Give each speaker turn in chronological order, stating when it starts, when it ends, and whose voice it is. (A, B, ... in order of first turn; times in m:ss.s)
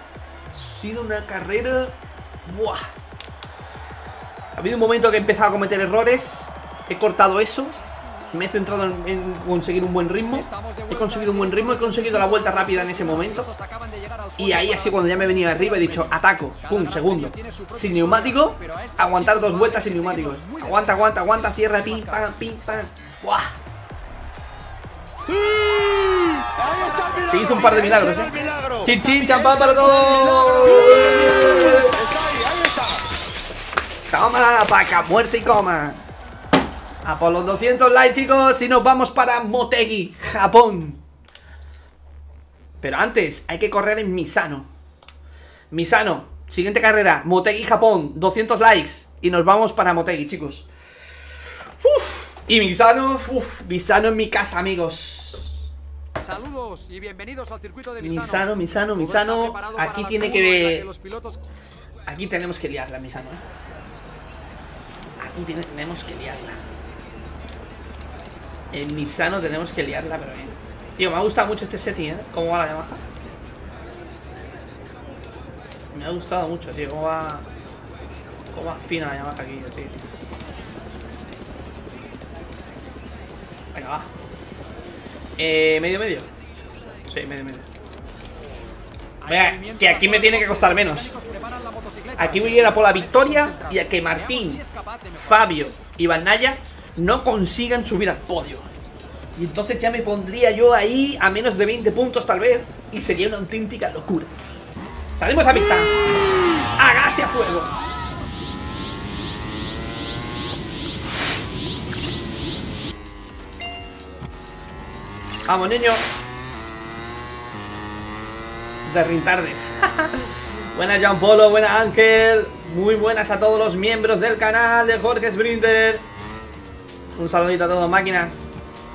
0:00.5-0:02.9 A
0:04.6-0:07.8 A
0:08.3-0:13.5 A
0:10.3-0:22.3 B
0:14.4-0:23.5 A
0:27.3-0:32.1 A
0:34.1-0:36.0 A
0:37.0-0:41.0 A
0:42.8-0:44.7 A
0:45.7-0:50.7 A
0:51.8-0:55.6 A
0:56.2-1:01.4 B
0:58.0-1:00.8 A
1:02.1-1:03.4 A
1:05.2-1:06.6 A
1:08.7-1:13.0 A
1:15.9-1:17.5 A
1:18.5-1:20.0 A
1:23.7-1:24.1 A
1:25.4-1:26.3 A
1:27.1-1:27.6 A
1:29.2-1:35.7 B
1:29.3-1:31.1 A
1:32.2-1:34.6 A
1:35.2-1:38.7 A
1:39.4-1:44.3 A
1:45.2-1:45.9 A
1:46.8-1:47.8 A
1:55.5-1:56.0 A
1:58.9-2:06.0 A
2:07.2-2:08.5 A